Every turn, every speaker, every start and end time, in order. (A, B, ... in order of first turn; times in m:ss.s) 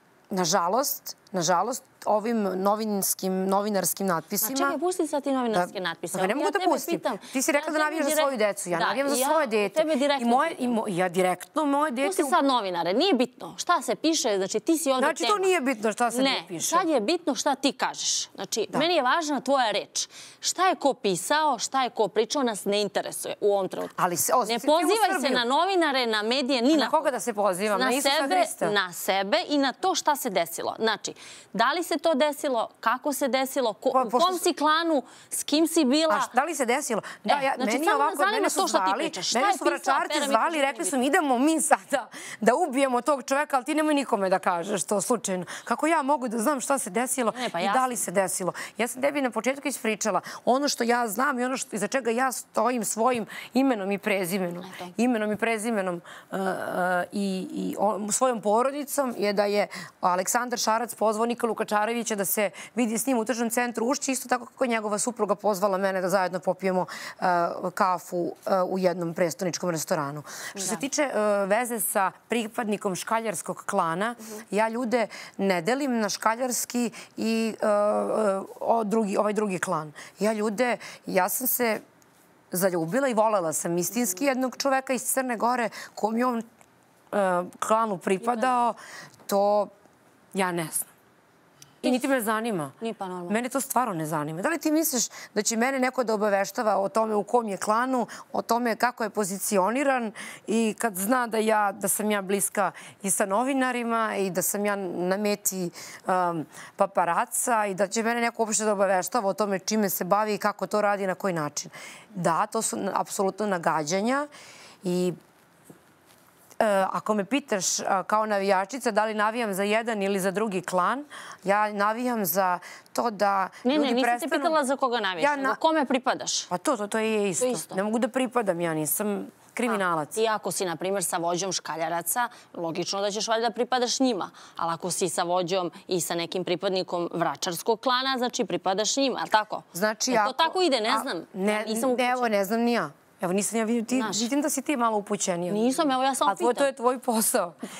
0:00.3-0:04.8 A
0:04.4-0:10.7 B
0:05.5-0:12.4 A
0:12.0-0:15.5 B
0:15.0-0:16.8 A
0:16.1-0:23.9 B
0:24.0-0:25.4 A
0:24.4-0:27.1 B
0:26.7-0:28.7 A
0:27.7-0:36.3 B
0:33.9-0:34.4 A
0:36.1-1:21.8 A
0:37.3-0:41.0 B
0:47.3-0:48.0 B
0:54.6-0:54.9 B
1:10.5-1:10.8 B
1:22.5-1:26.4 A
1:27.1-1:29.7 A
1:30.3-1:30.9 A
1:31.8-1:32.8 A
1:32.8-1:33.4 B
1:33.3-1:54.3 A
1:54.8-1:55.2 A
1:56.6-2:04.6 A
2:03.6-2:06.5 B
2:05.2-2:05.6 A
2:06.5-2:10.2 A
2:07.4-2:07.8 B
2:10.1-2:22.3 B
2:19.7-2:27.6 A
2:23.9-2:24.3 B
2:25.5-2:26.7 B